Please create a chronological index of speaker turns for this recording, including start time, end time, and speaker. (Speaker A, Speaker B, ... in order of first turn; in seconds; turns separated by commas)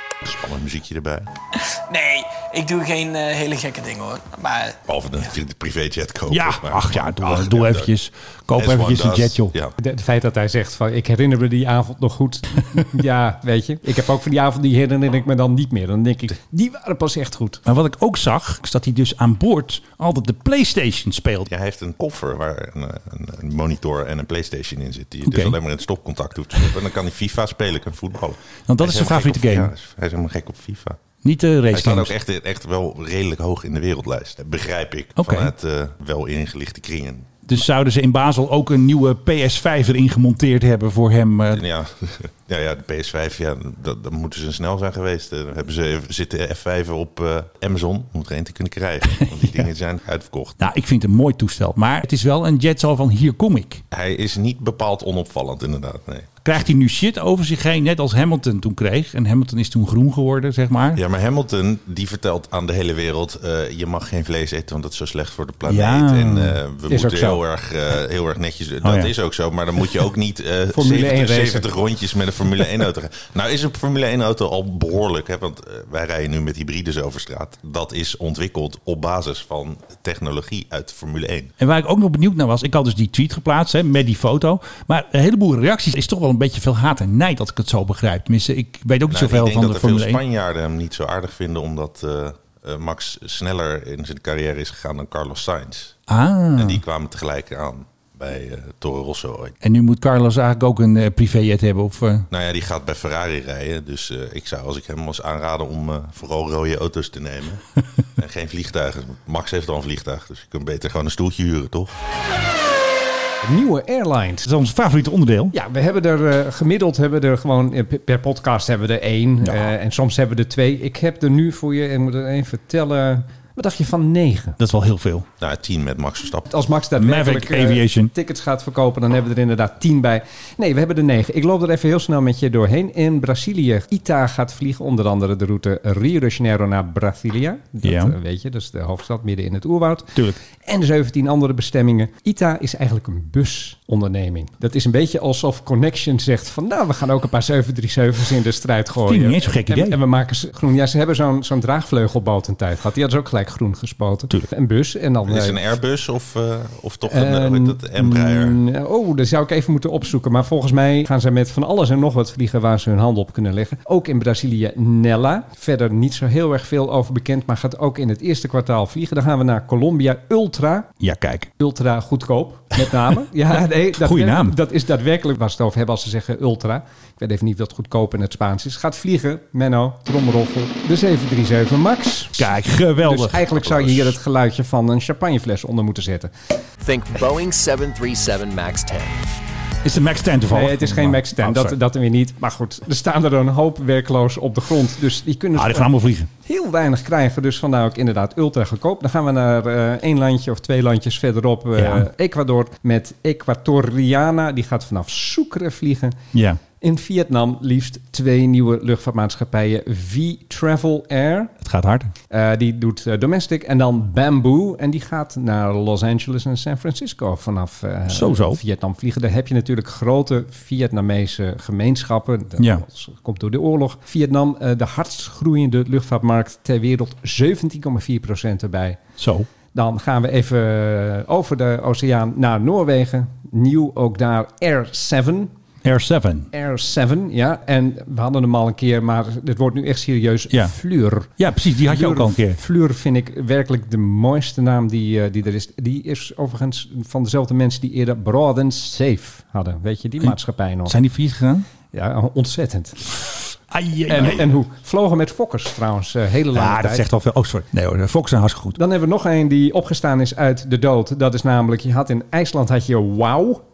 Speaker A: 0.2-1.3, Speaker B: 1.9-4.8, Speaker A: 4.8-7.9, Speaker C: 6.3-9.5, Speaker A: 8.5-9.7, Speaker D: 9.8-17.6, Speaker C: 17.6-21.5, Speaker A: 21.5-31.0, Speaker C: 25.2-25.5, Speaker C: 28.7-29.7, Speaker C: 31.2-32.1, Speaker A: 31.7-37.3, Speaker C: 35.2-35.5, Speaker C: 37.5-41.6, Speaker A: 41.5-50.6, Speaker C: 49.2-49.7, Speaker C: 50.6-53.8, Speaker A: 53.9-56.6, Speaker C: 56.4-61.0, Speaker A: 60.9-81.5, Speaker C: 65.7-66.6, Speaker D: 66.9-67.4, Speaker C: 68.8-69.1, Speaker D: 70.7-71.7, Speaker C: 81.6-90.2, Speaker A: 89.1-96.0, Speaker C: 96.1-96.8, Speaker A: 96.5-99.5, Speaker C: 99.6-102.3, Speaker A: 102.3-107.6, Speaker A: 108.2-111.9, Speaker D: 113.4-114.5, Speaker C: 114.4-115.5, Speaker D: 115.5-124.6, Speaker C: 119.4-119.7, Speaker C: 124.6-125.2, Speaker A: 125.4-126.5, Speaker D: 126.5-155.6, Speaker C: 127.0-128.1, Speaker C: 137.8-138.1, Speaker C: 149.1-150.0, Speaker A: 155.2-158.6, Speaker D: 157.1-170.9, Speaker C: 171.0-171.5, Speaker D: 171.6-186.3, Speaker C: 174.0-174.6, Speaker C: 182.4-183.4, Speaker A: 183.6-184.1, Speaker E: 186.8-189.1, Speaker C: 189.8-191.8, Speaker D: 190.5-195.9, Speaker C: 195.6-196.3, Speaker D: 196.4-206.2, Speaker C: 201.8-202.1, Speaker C: 206.3-206.6, Speaker D: 206.8-211.5, Speaker C: 211.6-212.1, Speaker D: 212.3-229.0, Speaker C: 218.1-218.6, Speaker C: 229.2-229.5, Speaker D: 229.7-235.5, Speaker C: 235.8-236.5, Speaker D: 236.5-241.3, Speaker C: 241.4-242.6, Speaker D: 241.9-250.9, Speaker C: 250.9-251.7, Speaker D: 251.9-253.1, Speaker C: 253.7-254.4, Speaker D: 254.1-257.0, Speaker C: 256.5-258.8, Speaker D: 258.8-263.6